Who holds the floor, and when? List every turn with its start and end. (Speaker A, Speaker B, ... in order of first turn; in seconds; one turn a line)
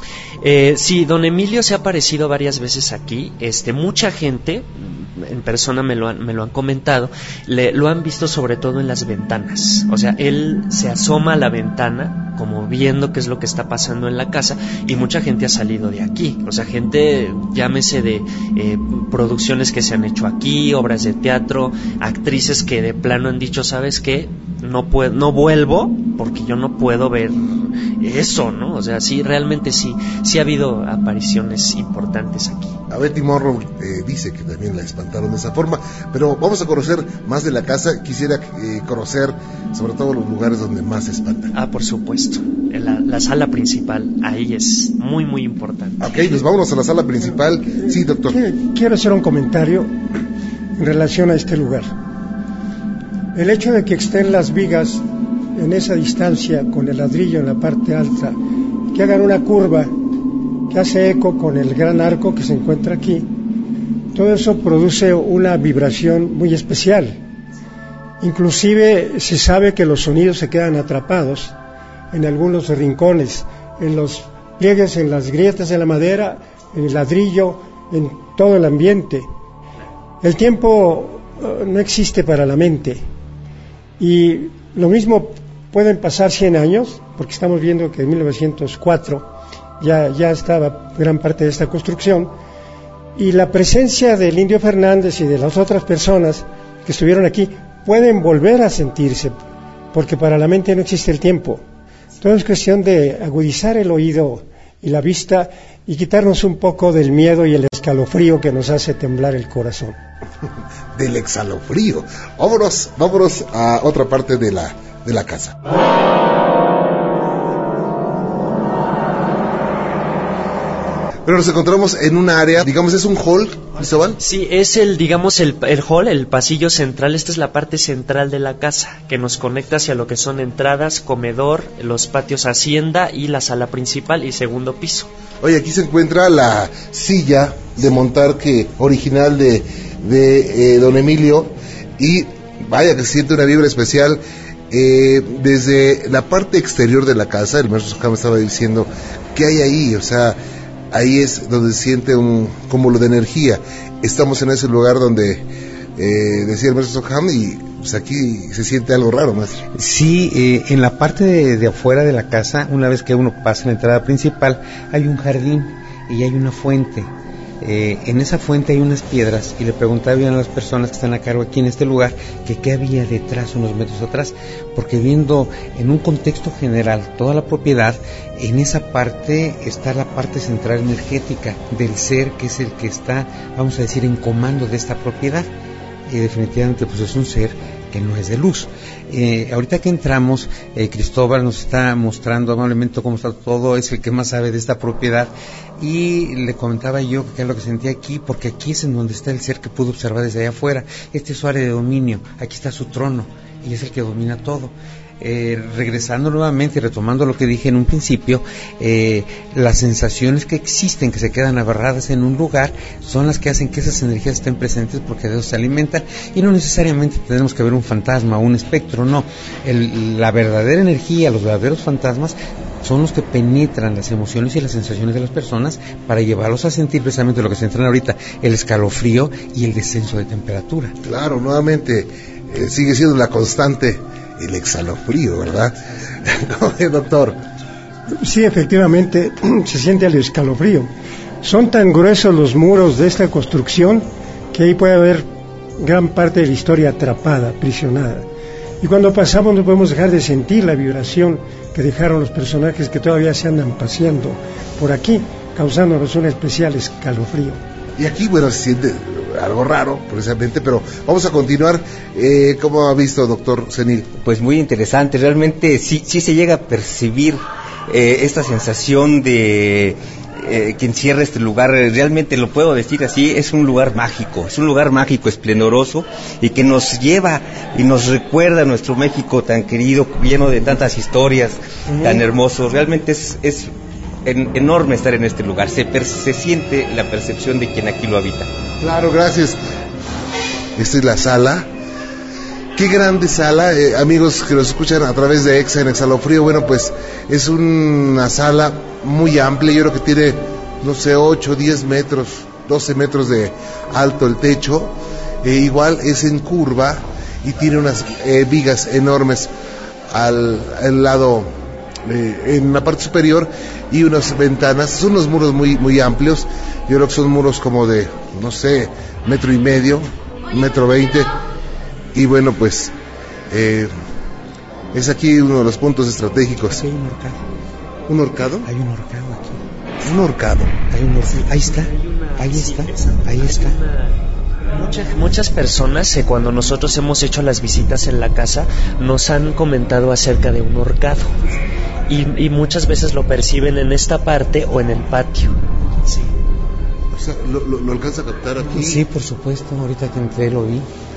Speaker A: 0.4-27.5
Speaker A: 28.0-32.8
Speaker B: 32.9-41.5
Speaker A: 41.5-46.1
Speaker B: 46.0-48.4
Speaker C: 48.3-50.0
Speaker C: 50.8-51.9
Speaker C: 53.3-55.0
Speaker C: 55.5-58.4
Speaker C: 58.9-60.0
Speaker C: 60.7-63.3
Speaker C: 64.1-67.2
Speaker C: 68.2-71.5
Speaker C: 72.1-79.3
Speaker C: 80.2-83.0
Speaker C: 84.0-89.3
Speaker C: 89.8-92.3
Speaker C: 93.2-99.4
Speaker C: 99.9-101.6
Speaker C: 102.2-110.0
Speaker B: 110.9-115.5
Speaker B: 121.3-124.2
Speaker A: 124.2-135.1
Speaker B: 135.4-150.4
Speaker B: 150.9-155.4
Speaker B: 156.0-159.7
Speaker D: 159.7-167.1
Speaker D: 167.6-185.5
Speaker D: 186.1-230.9
Speaker B: 231.0-237.4
Speaker C: 238.2-240.9
Speaker C: 241.4-248.3
Speaker C: 248.8-257.6
Speaker B: 258.0-264.1
Speaker E: 264.1-283.7
Speaker E: 284.3-288.5
Speaker B: 288.8-289.6
Speaker B: 290.8-291.7
Speaker B: 292.8-309.5
Speaker B: 310.1-311.5
Speaker B: 312.1-321.3
Speaker B: 322.1-322.9
Speaker B: 323.5-323.9
Speaker B: 324.9-326.8
Speaker D: 326.7-327.4
Speaker B: 328.1-328.7
Speaker D: 328.6-329.6
Speaker B: 330.0-330.7
Speaker D: 330.9-333.8
Speaker A: 331.7-334.2
Speaker A: 334.7-341.4
Speaker A: 342.1-346.3
Speaker B: 347.1-349.1
Speaker D: 348.7-350.9